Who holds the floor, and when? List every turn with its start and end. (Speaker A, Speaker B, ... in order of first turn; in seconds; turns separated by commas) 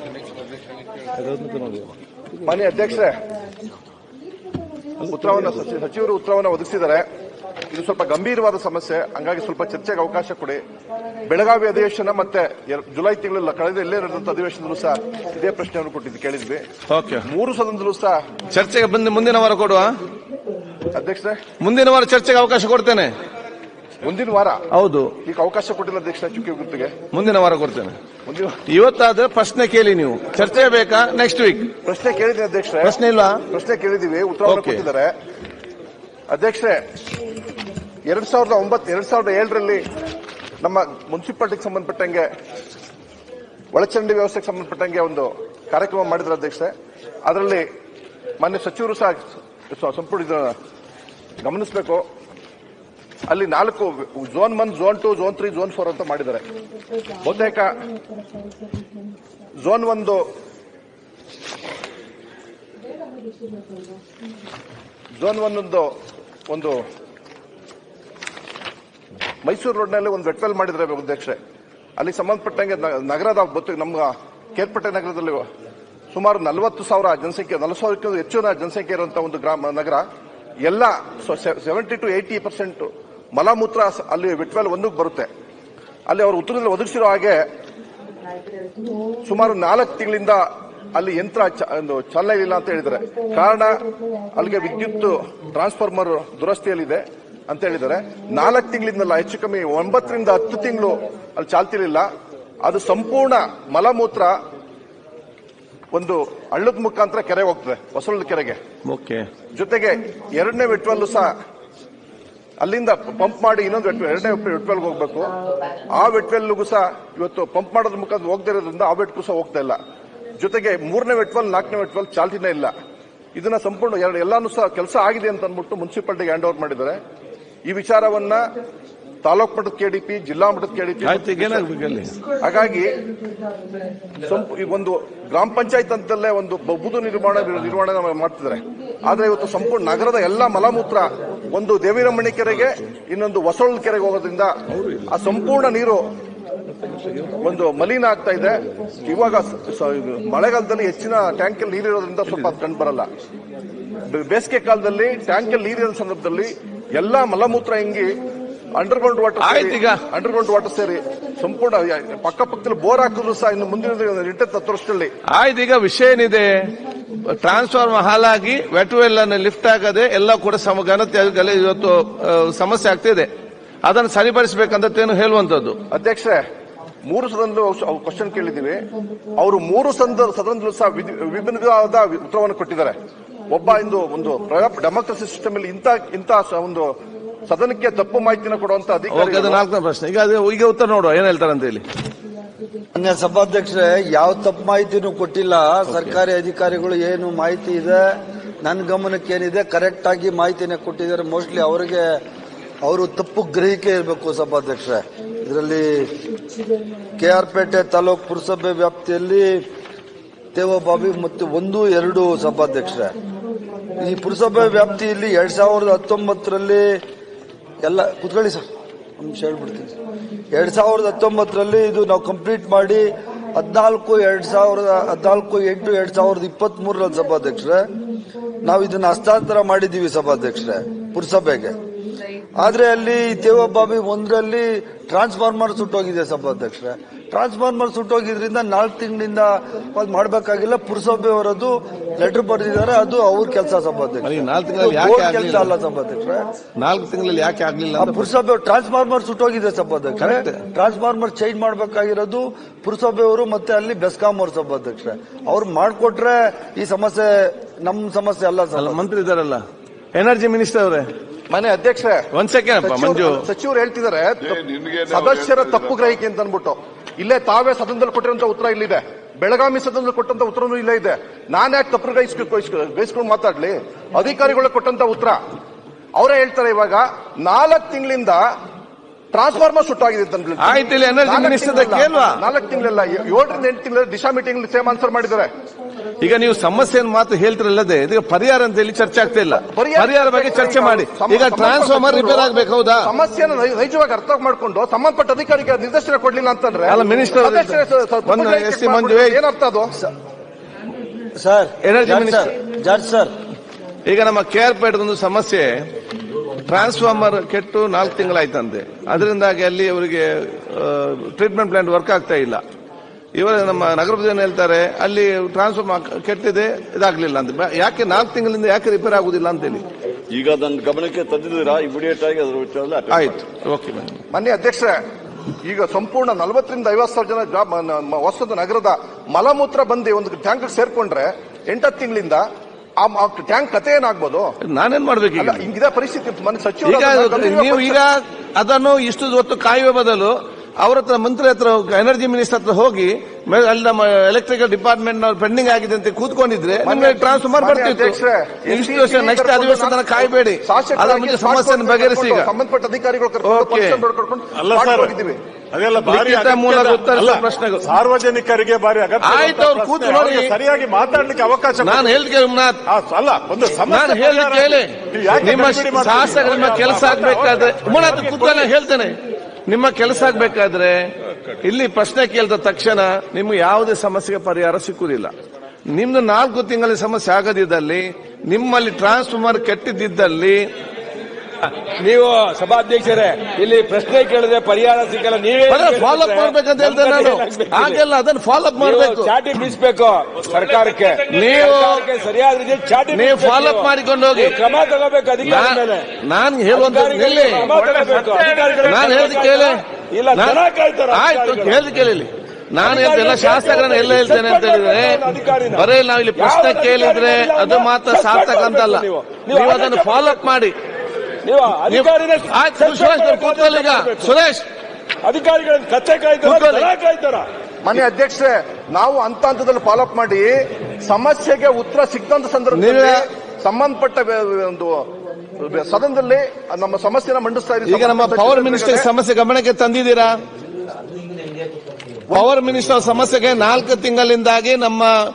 Speaker A: 1.2-1.8, Speaker B: 2.5-3.2, Speaker A: 5.1-5.4, Speaker B: 5.1-7.0, Speaker B: 7.7-10.6, Speaker B: 11.3-16.6, Speaker A: 16.9-17.2, Speaker B: 17.3-18.2, Speaker A: 18.5-19.9, Speaker B: 20.9-21.4, Speaker A: 21.6-23.1, Speaker B: 24.0-24.6, Speaker A: 24.7-25.1, Speaker B: 25.2-26.9, Speaker A: 27.1-28.0, Speaker B: 28.3-28.6, Speaker A: 28.7-31.7, Speaker B: 30.4-30.6, Speaker B: 31.8-33.0, Speaker A: 32.8-33.4, Speaker B: 33.5-35.1, Speaker A: 34.5-34.9, Speaker B: 36.3-36.8, Speaker B: 38.1-39.9, Speaker B: 40.6-42.3, Speaker B: 43.7-46.7, Speaker B: 47.3-47.7, Speaker B: 48.4-50.5, Speaker B: 51.4-52.0, Speaker B: 53.3-56.5, Speaker B: 57.2-57.8, Speaker B: 59.6-60.2, Speaker B: 65.2-65.9, Speaker B: 66.5-66.8, Speaker B: 69.4-71.4, Speaker B: 72.0-75.4, Speaker B: 76.1-80.0, Speaker B: 80.6-85.3, Speaker B: 86.1-87.4, Speaker B: 89.2-93.8, Speaker B: 94.4-102.1, Speaker B: 102.6-104.3, Speaker B: 105.9-108.6, Speaker A: 108.8-109.3, Speaker B: 109.5-111.3, Speaker B: 112.6-115.3, Speaker B: 115.9-119.8, Speaker B: 120.4-122.7, Speaker B: 123.3-127.0, Speaker B: 127.7-128.4, Speaker B: 129.2-131.7, Speaker A: 131.0-132.2, Speaker B: 132.4-132.9, Speaker B: 134.2-144.5, Speaker B: 145.1-146.1, Speaker B: 147.4-153.1, Speaker B: 154.1-158.2, Speaker B: 158.8-165.1, Speaker A: 159.4-160.0, Speaker A: 165.3-166.5, Speaker A: 167.4-173.3, Speaker A: 173.8-175.8, Speaker B: 175.9-176.4, Speaker B: 177.1-178.8, Speaker B: 179.4-183.0, Speaker B: 183.5-186.9, Speaker B: 187.5-189.6, Speaker A: 189.1-191.8, Speaker C: 192.9-202.2, Speaker A: 195.9-196.2, Speaker C: 202.8-206.1, Speaker C: 207.2-209.6, Speaker C: 210.5-213.1, Speaker C: 214.0-217.0, Speaker C: 217.8-218.6, Speaker C: 219.2-219.9, Speaker C: 220.5-227.9, Speaker C: 228.6-231.8, Speaker C: 232.6-246.5, Speaker A: 244.2-245.7, Speaker A: 246.8-248.3, Speaker C: 247.9-259.0, Speaker A: 250.2-250.6, Speaker A: 258.8-259.6, Speaker A: 260.1-261.1, Speaker B: 261.5-262.3, Speaker A: 262.3-263.4, Speaker B: 262.8-275.4, Speaker B: 276.1-278.4, Speaker B: 279.3-285.5, Speaker A: 280.6-282.4, Speaker A: 286.2-293.1, Speaker B: 289.5-299.9, Speaker A: 296.9-299.4, Speaker C: 301.4-303.3, Speaker A: 301.8-302.5, Speaker A: 304.1-305.7, Speaker A: 306.7-312.6, Speaker A: 313.4-319.9, Speaker D: 320.3-323.4, Speaker A: 323.1-324.1, Speaker B: 324.3-325.0, Speaker B: 325.6-332.4, Speaker B: 333.0-334.5, Speaker A: 334.6-335.6, Speaker B: 335.4-338.0, Speaker A: 336.8-352.5, Speaker B: 346.8-355.4, Speaker A: 353.4-354.0, Speaker E: 354.5-355.1, Speaker E: 355.7-362.2, Speaker A: 356.1-357.9, Speaker A: 359.2-360.6, Speaker A: 361.8-362.8, Speaker E: 362.9-368.7, Speaker A: 363.9-371.1, Speaker A: 371.6-375.3, Speaker A: 375.9-380.6, Speaker F: 381.6-388.0, Speaker A: 385.7-389.3, Speaker F: 388.8-396.1, Speaker A: 391.3-392.1, Speaker A: 393.1-394.6, Speaker A: 395.5-397.8, Speaker F: 396.7-401.8, Speaker A: 398.8-399.8, Speaker A: 400.3-410.8, Speaker F: 402.8-410.5, Speaker F: 411.4-414.4, Speaker A: 411.8-414.7, Speaker F: 415.2-417.5, Speaker A: 416.4-416.9, Speaker B: 417.8-425.1, Speaker A: 422.7-423.2, Speaker B: 425.6-429.1, Speaker A: 427.9-430.3, Speaker A: 432.3-435.1